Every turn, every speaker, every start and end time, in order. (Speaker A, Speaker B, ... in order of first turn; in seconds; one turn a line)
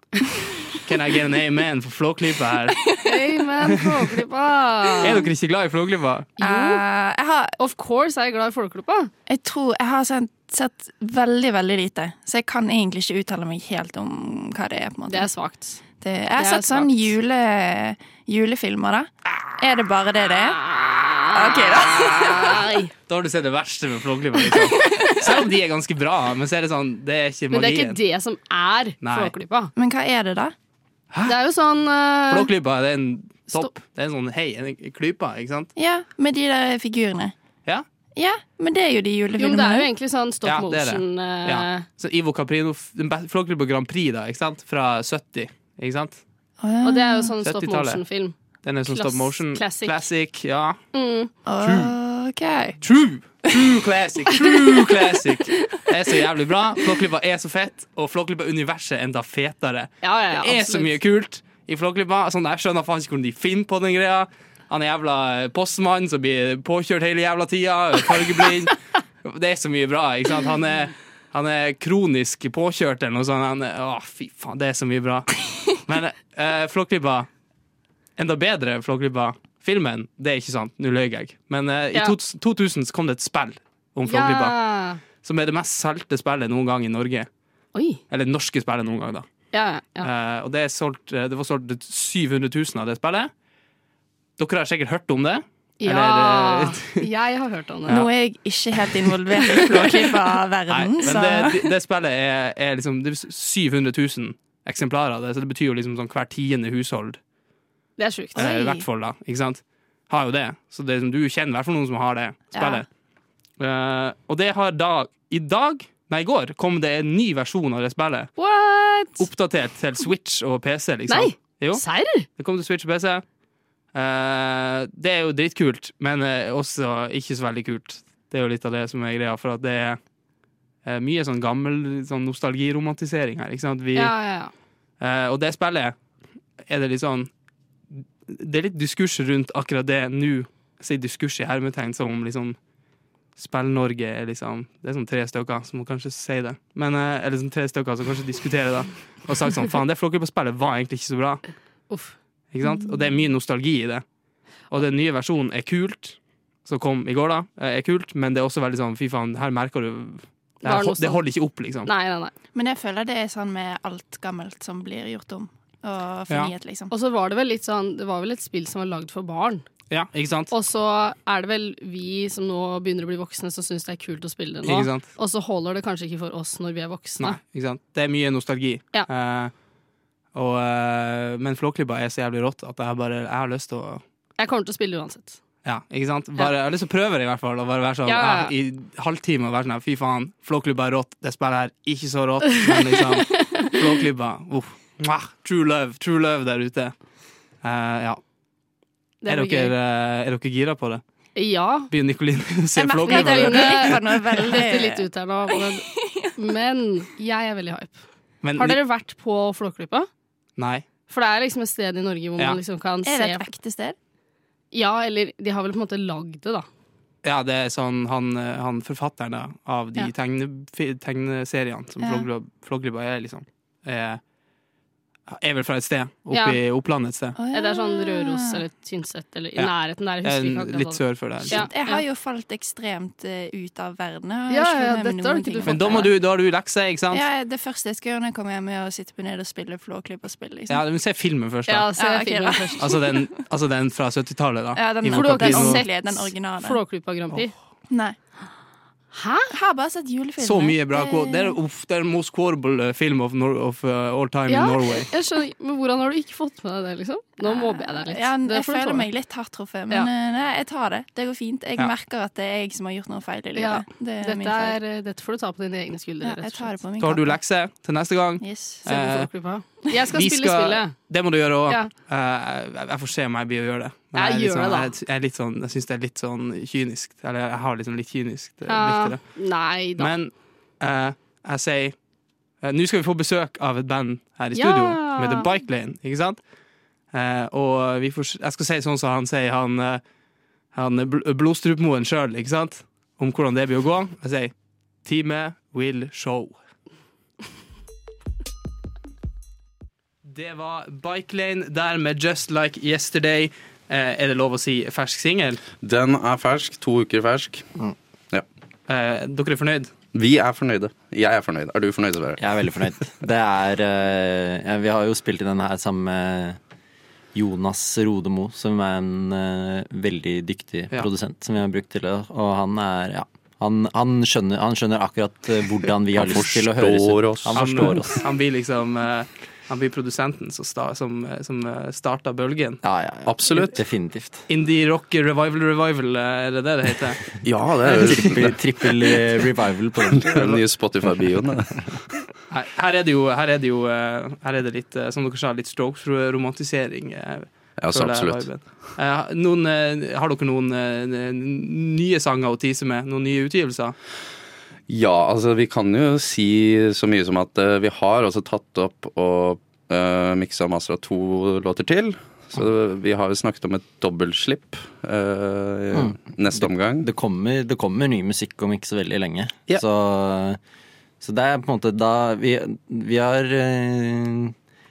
Speaker A: 0.8-2.8
Speaker B: 3.0-5.3
Speaker A: 5.0-6.3
Speaker B: 6.4-6.8
Speaker C: 6.4-7.5
Speaker B: 7.6-9.1
Speaker C: 9.3-15.3
Speaker B: 15.1-15.8
Speaker C: 16.0-20.6
Speaker B: 16.4-17.0
Speaker B: 20.3-22.9
Speaker C: 21.3-22.6
Speaker A: 23.1-28.0
Speaker B: 24.5-25.2
Speaker B: 27.5-29.7
Speaker A: 29.0-29.3
Speaker C: 29.8-30.5
Speaker A: 31.1-31.4
Speaker B: 31.2-32.5
Speaker A: 32.3-35.7
Speaker C: 35.8-37.3
Speaker C: 38.1-39.9
Speaker B: 39.4-41.8
Speaker A: 40.4-46.2
Speaker C: 46.6-47.3
Speaker B: 46.8-50.0
Speaker A: 47.4-50.8
Speaker B: 50.9-51.3
Speaker C: 51.5-52.8
Speaker A: 51.6-51.9
Speaker A: 52.8-77.3
Speaker B: 60.0-60.9
Speaker A: 78.2-84.6
Speaker B: 84.1-85.0
Speaker A: 85.2-87.3
Speaker B: 87.7-88.0
Speaker A: 88.1-89.3
Speaker B: 89.5-90.1
Speaker A: 90.0-93.3
Speaker A: 94.4-97.0
Speaker B: 95.8-98.0
Speaker C: 97.9-101.6
Speaker A: 100.7-107.2
Speaker B: 108.0-108.7
Speaker C: 108.3-108.8
Speaker A: 108.3-112.8
Speaker C: 112.5-112.8
Speaker A: 113.6-118.3
Speaker B: 118.4-119.3
Speaker A: 119.2-123.2
Speaker B: 121.1-122.2
Speaker A: 123.9-130.0
Speaker A: 130.8-134.3
Speaker B: 133.9-134.5
Speaker A: 135.0-136.0
Speaker A: 136.7-137.3
Speaker A: 137.9-142.6
Speaker A: 143.3-151.4
Speaker B: 151.9-152.2
Speaker A: 152.5-154.0
Speaker A: 154.7-161.9
Speaker B: 160.6-162.3
Speaker C: 162.5-166.9
Speaker B: 166.9-169.6
Speaker A: 169.9-170.5
Speaker B: 170.5-177.4
Speaker A: 174.6-175.1
Speaker A: 177.2-179.5
Speaker A: 180.3-184.0
Speaker B: 184.4-185.4
Speaker A: 185.6-197.0
Speaker B: 188.1-188.5
Speaker B: 193.3-193.7
Speaker A: 197.6-198.2
Speaker B: 199.2-199.7
Speaker A: 199.2-201.0
Speaker B: 201.3-201.9
Speaker A: 201.9-204.0
Speaker C: 202.8-206.3
Speaker B: 203.0-208.0
Speaker A: 208.4-208.8
Speaker B: 208.6-210.1
Speaker A: 210.6-210.8
Speaker B: 211.1-213.5
Speaker C: 213.0-213.9
Speaker B: 214.7-216.7
Speaker A: 217.2-224.2
Speaker C: 222.0-222.3
Speaker A: 225.3-227.4
Speaker B: 226.3-226.6
Speaker C: 227.4-228.6
Speaker B: 227.5-232.0
Speaker A: 229.6-231.6
Speaker C: 231.5-236.1
Speaker B: 234.5-236.1
Speaker A: 235.7-237.2
Speaker C: 237.1-240.8
Speaker A: 240.7-241.9
Speaker B: 241.7-242.8
Speaker C: 242.0-243.1
Speaker A: 242.8-245.8
Speaker C: 244.8-246.8
Speaker B: 245.0-247.5
Speaker C: 247.9-248.2
Speaker B: 249.1-249.5
Speaker C: 249.5-251.6
Speaker A: 250.4-255.1
Speaker B: 254.5-259.1
Speaker C: 257.4-264.8
Speaker B: 263.5-266.7
Speaker C: 266.2-267.4
Speaker A: 267.0-269.3
Speaker C: 268.4-268.8
Speaker B: 268.8-271.0
Speaker A: 270.1-282.0
Speaker B: 274.1-274.9
Speaker B: 278.7-280.1
Speaker A: 282.6-286.4
Speaker B: 284.5-285.5
Speaker A: 287.1-290.0
Speaker A: 290.7-296.6
Speaker A: 300.3-305.6
Speaker D: 305.8-307.7
Speaker A: 308.9-309.9
Speaker D: 310.1-312.4
Speaker E: 312.4-316.6
Speaker E: 317.3-328.2
Speaker D: 326.1-328.0
Speaker A: 327.5-332.8
Speaker E: 332.8-334.4
Speaker D: 333.2-333.7
Speaker A: 334.5-337.2
Speaker D: 337.4-339.2
Speaker E: 337.8-341.3
Speaker D: 340.1-341.9
Speaker A: 342.5-353.9
Speaker D: 347.8-348.5
Speaker D: 354.9-367.1
Speaker E: 365.9-370.6
Speaker E: 371.2-374.5